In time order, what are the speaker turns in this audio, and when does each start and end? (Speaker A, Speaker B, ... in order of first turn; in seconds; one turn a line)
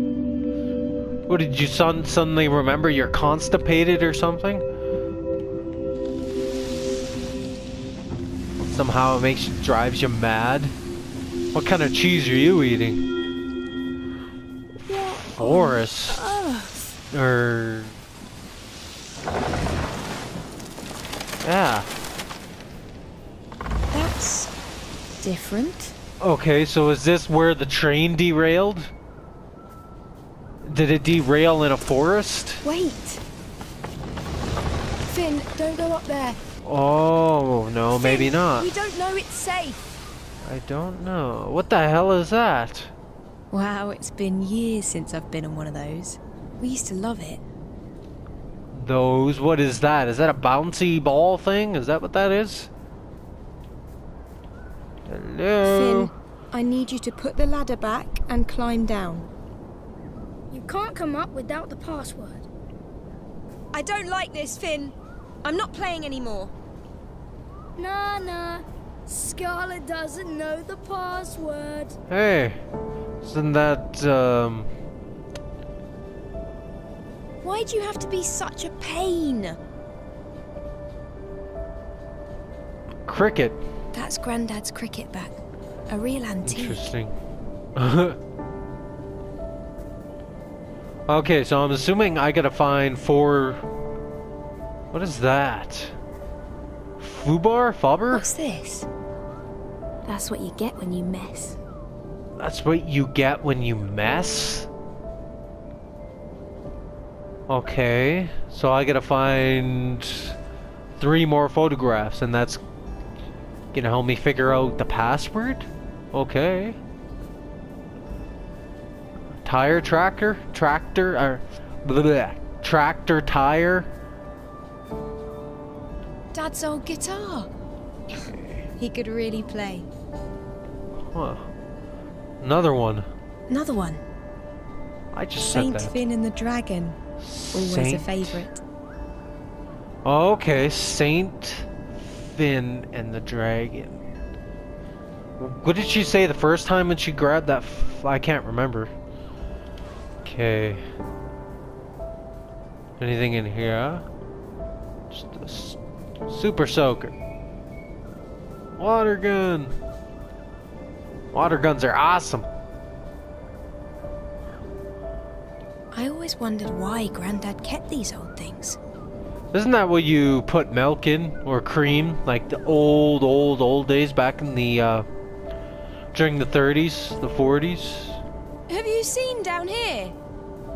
Speaker A: 1.3-4.6
Speaker A: 8.6-10.7
Speaker A: 11.5-13.0
Speaker B: 14.8-17.0
Speaker A: 15.4-16.2
Speaker A: 17.1-18.0
Speaker A: 21.4-21.9
Speaker B: 23.9-24.5
Speaker B: 25.2-25.9
Speaker A: 26.2-28.9
Speaker A: 30.6-32.6
Speaker B: 32.6-33.2
Speaker B: 35.0-36.4
Speaker A: 36.6-38.7
Speaker B: 37.9-40.0
Speaker A: 40.4-42.9
Speaker B: 43.5-47.4
Speaker A: 48.7-52.7
Speaker A: 55.1-56.1
Speaker B: 55.6-59.3
Speaker C: 60.5-62.5
Speaker B: 63.7-66.5
Speaker C: 67.8-72.0
Speaker A: 72.1-72.6
Speaker A: 73.2-74.7
Speaker B: 77.4-79.6
Speaker A: 83.1-83.6
Speaker B: 83.9-86.9
Speaker A: 86.4-87.1
Speaker A: 87.8-88.2
Speaker A: 91.1-93.6
Speaker A: 94.9-96.0
Speaker A: 97.0-98.3
Speaker B: 98.1-98.9
Speaker B: 100.0-101.6
Speaker A: 102.4-104.7
Speaker A: 107.5-110.3
Speaker A: 111.0-112.6
Speaker A: 113.7-116.8
Speaker A: 119.4-123.9
Speaker B: 126.3-127.5
Speaker A: 128.2-128.6
Speaker B: 128.8-129.9
Speaker A: 131.0-131.5
Speaker A: 132.4-133.1
Speaker B: 133.5-134.0
Speaker A: 135.1-136.0
Speaker B: 135.4-137.0
Speaker A: 137.2-138.5
Speaker B: 137.5-138.6
Speaker A: 140.0-144.0
Speaker A: 145.4-148.9
Speaker A: 150.2-150.8
Speaker A: 153.0-154.0
Speaker A: 155.1-157.1
Speaker A: 158.8-159.7
Speaker A: 161.3-162.5
Speaker B: 165.9-168.8
Speaker A: 169.5-175.1
Speaker A: 176.1-178.2
Speaker B: 178.7-180.2